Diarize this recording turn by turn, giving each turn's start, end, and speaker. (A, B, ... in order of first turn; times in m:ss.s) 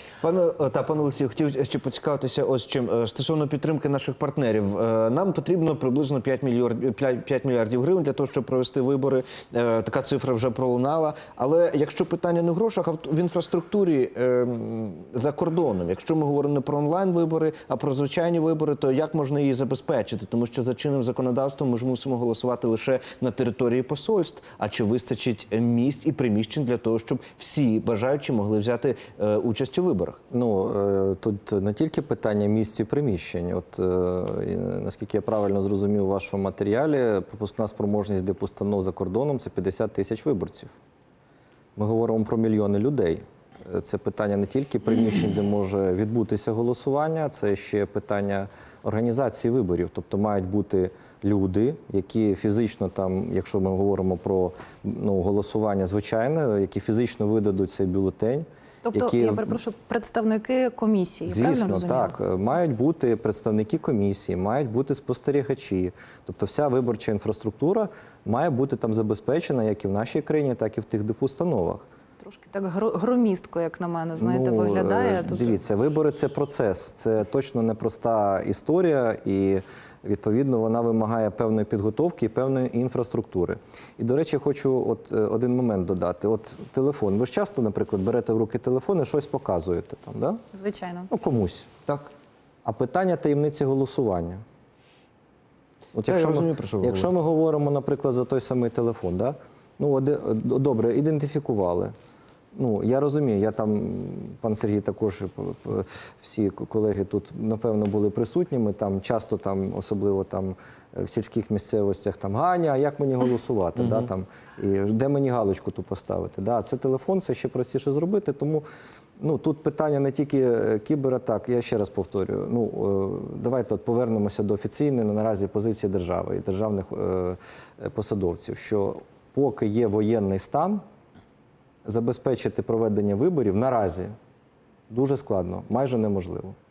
0:00.2-0:30.2 A
0:30.3-0:40.7 B
0:41.8-0:59.6 B
0:58.8-1:02.1 C
1:01.2-1:11.8 B
1:12.2-1:15.6 C
1:14.2-1:30.4 B
1:30.5-1:31.1 C
1:31.1-1:31.7 B
1:32.6-1:34.4 B
1:35.9-1:41.9 B
1:36.0-1:37.1 A
1:42.5-1:58.6 B
1:59.2-2:10.8 B
2:11.8-2:14.1 B
2:14.9-2:16.5 B